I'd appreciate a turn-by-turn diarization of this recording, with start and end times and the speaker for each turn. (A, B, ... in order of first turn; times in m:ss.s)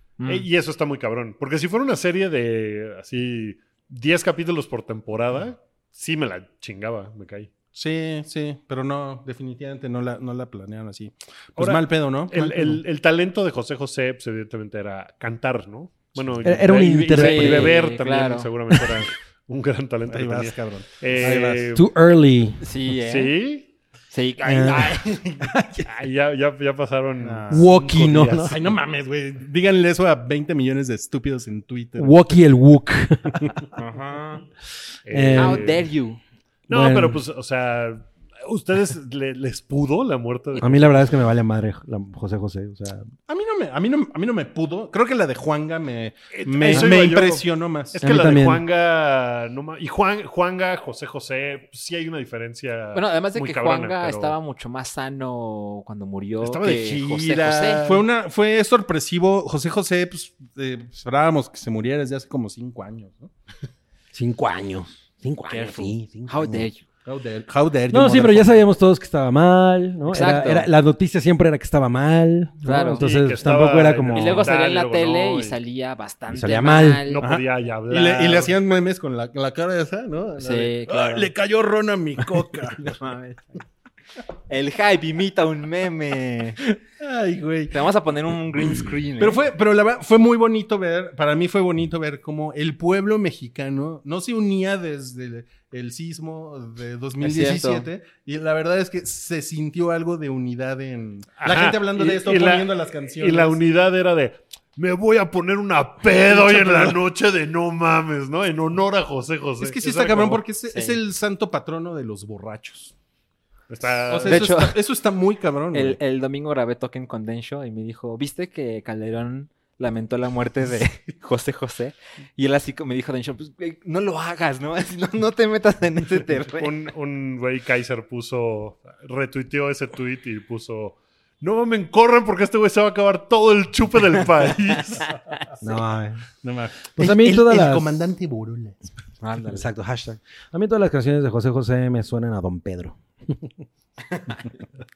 0:00.2-0:00.5 A
0:00.2-0:07.5 B
0:07.8-0:12.8 C
0:11.6-0:21.8 B
0:16.4-0:17.8 D
0:17.1-0:18.5 A
0:20.1-0:21.8 C
0:21.7-0:22.6 D
0:22.6-0:23.4 A
0:23.0-0:23.7 B
0:24.1-0:25.2 A
0:24.4-0:25.9 D
0:25.9-0:28.7 B
0:27.2-0:27.7 C
0:27.5-0:28.6 D
0:28.5-0:32.2 C
0:32.0-0:33.6 D
0:33.6-0:34.4 C
0:35.1-0:35.8 B
0:35.1-0:35.8 D
0:35.4-0:36.2 A
0:36.7-0:41.0 B
0:36.7-0:37.2 D
0:40.6-0:43.1 D
0:43.3-0:48.0 C
0:46.3-0:54.4 B
0:46.7-0:47.0 D
0:48.0-0:48.6 D
0:52.9-0:58.0 A
0:56.4-1:03.3 C
0:56.7-0:57.1 B
1:04.1-1:06.7 D
1:05.5-1:06.8 A
1:07.0-1:08.6 C
1:07.9-1:14.5 D
1:10.1-1:10.7 A
1:12.6-1:13.1 A
1:13.0-1:15.6 B
1:14.1-1:17.2 A
1:16.3-1:17.1 D
1:17.1-1:18.5 B
1:17.2-1:22.9 C
1:20.4-1:21.3 A
1:22.8-1:23.5 A
1:24.5-1:26.6 A
1:26.7-1:27.8 C
1:27.7-1:29.4 A
1:29.2-1:43.6 C
1:37.2-1:37.9 A
1:41.4-1:50.4 B
1:46.3-1:47.0 C
1:49.6-1:52.9 C
1:50.7-1:51.0 A
1:53.7-1:54.5 B
1:54.1-1:56.0 C
1:54.2-1:54.8 A
1:55.7-2:06.7 A
2:06.6-2:15.1 B
2:15.6-2:16.3 D
2:16.4-2:18.8 C
2:16.9-2:17.9 D
2:19.2-2:19.7 A
2:19.5-2:23.0 D
2:24.1-2:24.5 A